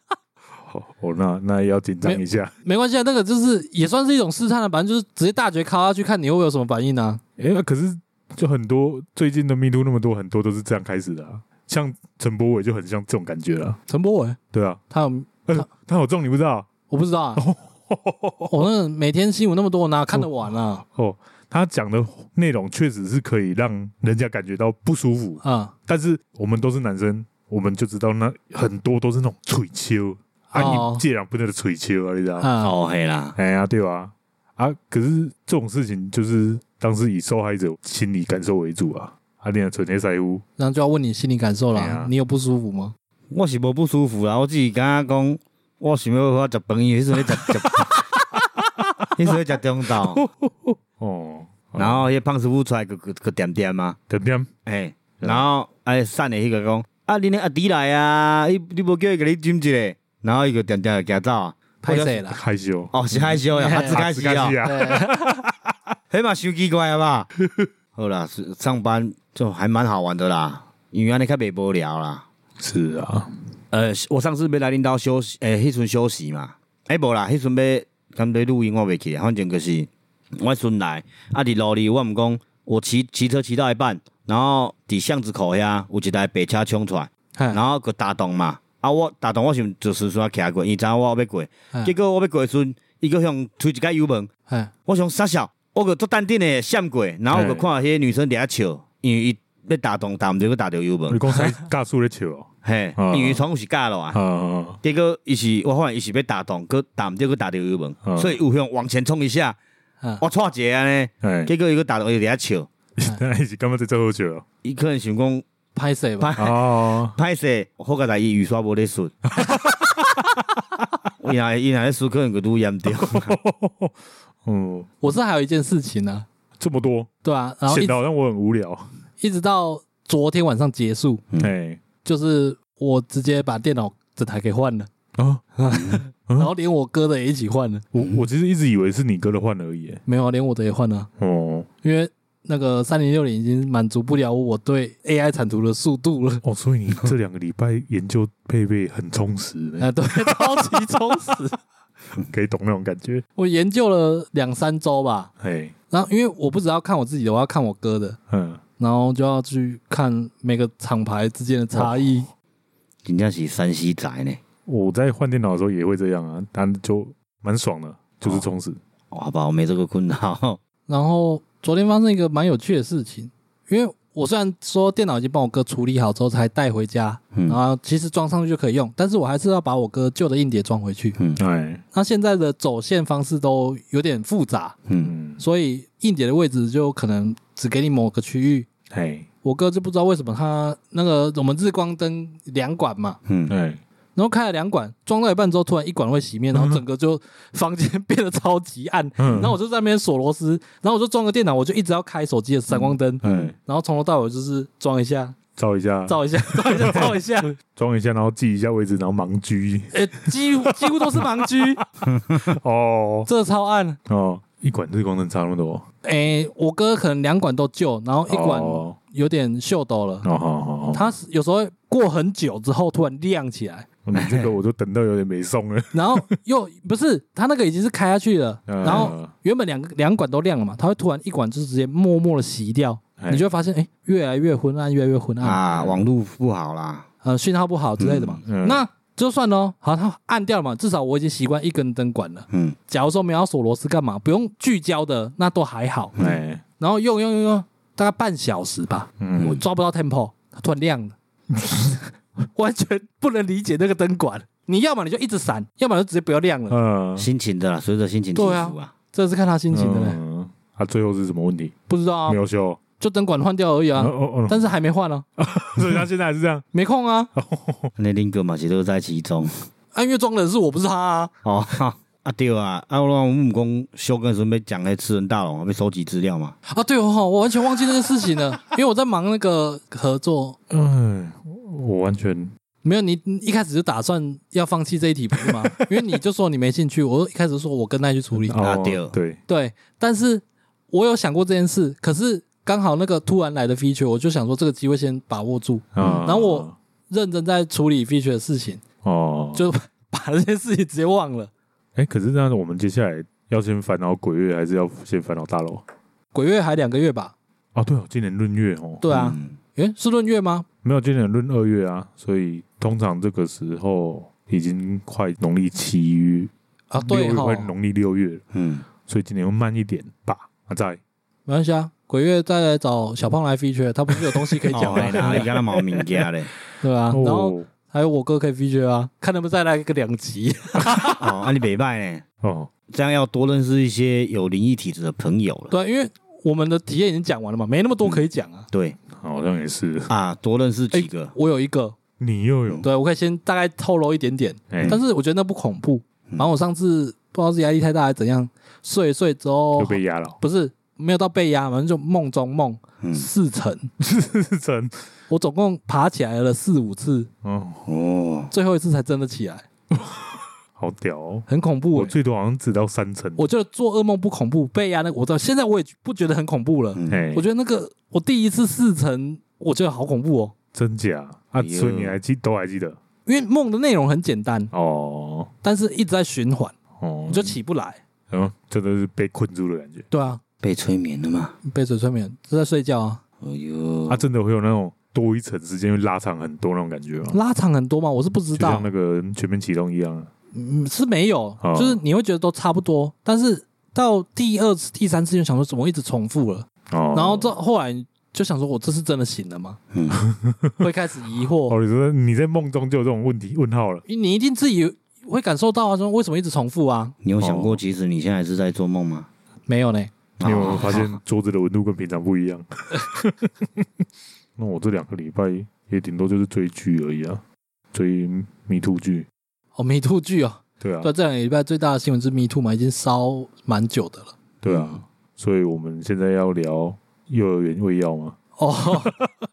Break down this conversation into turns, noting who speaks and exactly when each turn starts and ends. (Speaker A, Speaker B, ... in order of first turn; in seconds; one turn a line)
Speaker A: 0.7-2.5
Speaker B: 2.0-7.2
Speaker A: 7.4-13.8
Speaker B: 13.9-14.4
Speaker A: 14.5-14.8
Speaker B: 14.9-15.7
Speaker A: 15.5-16.7
Speaker B: 16.9-17.4
Speaker A: 17.4-18.7
Speaker B: 18.5-20.8
Speaker A: 20.1-32.5
Speaker B: 25.4-25.7
Speaker B: 30.5-31.0
Speaker B: 32.4-32.7
Speaker C: 32.6-33.4
Speaker A: 33.4-40.4
Speaker B: 40.6-42.9
Speaker A: 41.7-42.1
Speaker C: 43.3-48.0
Speaker C: 49.1-50.2
Speaker A: 50.0-52.0
Speaker C: 51.8-54.0
Speaker A: 54.1-54.5
Speaker C: 54.6-62.1
Speaker B: 61.8-62.4
Speaker A: 62.0-65.5
Speaker C: 62.9-64.6
Speaker B: 63.5-64.0
Speaker B: 64.6-65.3
Speaker C: 66.1-67.3
Speaker C: 68.0-72.2
Speaker A: 72.6-73.3
Speaker C: 73.7-94.3
Speaker C: 94.8-101.2
Speaker A: 97.3-97.6
Speaker A: 101.1-103.4
Speaker C: 102.6-104.2
Speaker A: 104.1-104.8
Speaker C: 104.8-109.6
Speaker A: 108.0-108.4
Speaker C: 110.2-112.7
Speaker A: 111.2-111.5
Speaker A: 113.0-114.4
Speaker C: 114.6-115.4
Speaker B: 115.7-116.3
Speaker C: 116.2-119.2
Speaker A: 116.4-117.2
Speaker A: 119.4-119.9
Speaker C: 121.2-123.3
Speaker A: 123.0-123.9
Speaker A: 124.4-124.9
Speaker B: 125.0-126.2
Speaker A: 126.6-127.1
Speaker B: 127.2-128.0
Speaker A: 127.7-128.8
Speaker B: 129.2-131.2
Speaker A: 131.4-131.8
Speaker B: 132.0-134.9
Speaker A: 135.2-135.4
Speaker B: 135.6-137.8
Speaker A: 137.9-140.0
Speaker B: 140.1-141.1
Speaker A: 141.2-141.7
Speaker B: 141.8-146.4
Speaker A: 146.4-150.9
Speaker B: 149.8-151.6
Speaker A: 152.2-153.2
Speaker B: 153.3-155.3
Speaker A: 155.4-155.7
Speaker B: 155.9-158.2
Speaker A: 158.3-158.6
Speaker B: 158.8-162.3
Speaker C: 163.0-164.4
Speaker A: 164.7-168.8
Speaker C: 169.1-170.6
Speaker B: 170.9-181.2
Speaker C: 177.3-177.6
Speaker A: 181.4-181.8
Speaker B: 181.9-184.8
Speaker C: 184.9-185.1
Speaker A: 185.0-185.4
Speaker B: 185.4-188.7
Speaker A: 188.9-189.3
Speaker B: 189.4-193.2
Speaker C: 193.2-193.5
Speaker A: 193.5-193.8
Speaker B: 194.2-205.4
Speaker A: 199.2-199.5
Speaker A: 203.2-203.5
Speaker C: 203.2-203.5
Speaker A: 205.6-207.2
Speaker B: 206.1-207.6
Speaker A: 207.7-213.3
Speaker B: 209.9-211.8
Speaker B: 213.2-214.0
Speaker A: 214.1-215.8
Speaker B: 216.0-220.2
Speaker A: 218.3-218.9
Speaker A: 220.2-221.1
Speaker B: 220.9-223.8
Speaker A: 224.0-226.2
Speaker C: 224.1-224.5
Speaker B: 225.9-235.6
Speaker A: 228.7-229.3
Speaker C: 228.8-229.1
Speaker A: 233.2-233.4
Speaker C: 235.4-237.1
Speaker A: 235.7-236.0
Speaker B: 237.2-246.1
Speaker C: 238.0-238.4
Speaker A: 238.4-238.8
Speaker C: 242.5-242.8
Speaker C: 246.2-246.4
Speaker A: 246.2-246.6
Speaker B: 246.8-256.8
Speaker A: 249.2-249.6
Speaker C: 249.4-249.6
Speaker A: 256.7-257.3
Speaker C: 257.2-258.9
Speaker B: 258.3-260.2
Speaker A: 259.7-261.7
Speaker B: 261.9-262.4
Speaker A: 262.3-262.8
Speaker B: 263.0-265.2
Speaker A: 264.0-264.7
Speaker A: 265.4-266.6
Speaker B: 266.7-267.3
Speaker A: 267.4-267.9
Speaker C: 267.9-269.5
Speaker B: 269.9-271.3
Speaker C: 271.4-276.6
Speaker B: 276.7-280.6
Speaker A: 280.7-282.5
Speaker B: 282.8-288.6
Speaker A: 288.3-289.4
Speaker C: 288.6-289.1
Speaker B: 289.5-298.8
Speaker A: 295.9-296.8
Speaker C: 296.0-296.3
Speaker A: 299.0-299.6
Speaker B: 299.5-301.5
Speaker A: 301.9-305.8
Speaker B: 306.3-307.3
Speaker A: 307.7-309.0
Speaker B: 309.0-310.6
Speaker C: 309.1-309.6
Speaker A: 310.8-318.4
Speaker B: 316.9-317.7
Speaker C: 318.5-318.9
Speaker A: 319.1-321.0
Speaker B: 321.5-325.5
Speaker A: 324.7-325.4
Speaker C: 324.7-326.5
Speaker B: 326.8-331.2
Speaker A: 327.1-327.7
Speaker C: 331.2-332.2
Speaker A: 332.4-332.7
Speaker C: 332.9-335.7
Speaker B: 335.7-338.7
Speaker C: 338.0-339.0
Speaker A: 339.1-340.1
Speaker C: 340.1-341.3
Speaker B: 340.9-342.0
Speaker A: 342.2-342.8
Speaker B: 342.8-353.9
Speaker A: 344.7-345.0
Speaker A: 349.8-350.4
Speaker C: 353.0-353.3
Speaker A: 354.0-354.9
Speaker B: 355.3-357.3
Speaker A: 357.4-357.9
Speaker C: 357.9-358.5
Speaker B: 358.5-359.6
Speaker A: 359.9-363.4
Speaker B: 361.5-362.1
Speaker B: 363.4-370.5
Speaker C: 366.9-367.2
Speaker A: 367.1-367.4
Speaker A: 370.7-373.0
Speaker C: 371.6-372.2
Speaker B: 373.2-374.7
Speaker A: 374.7-375.5
Speaker B: 375.6-376.7
Speaker A: 377.0-377.6
Speaker B: 377.3-378.0
Speaker A: 378.3-380.1
Speaker B: 380.1-380.4
Speaker C: 380.6-381.6
Speaker B: 381.6-383.2
Speaker C: 383.4-384.2
Speaker A: 384.1-387.4
Speaker B: 387.3-388.9
Speaker A: 388.6-390.3
Speaker B: 390.5-399.8
Speaker A: 391.6-392.0
Speaker A: 396.9-397.5
Speaker C: 399.9-400.2
Speaker A: 400.1-400.8
Speaker B: 400.8-401.8
Speaker A: 401.7-404.0
Speaker B: 404.1-407.1
Speaker C: 407.2-409.3
Speaker A: 407.4-407.8
Speaker B: 409.7-410.1
Speaker C: 410.4-411.2
Speaker A: 410.4-413.8
Speaker A: 414.6-417.4
Speaker A: 417.9-419.3
Speaker B: 419.8-424.3
Speaker A: 420.8-421.1
Speaker A: 424.6-428.4
Speaker C: 424.7-425.0
Speaker B: 428.6-429.1
Speaker A: 428.9-429.3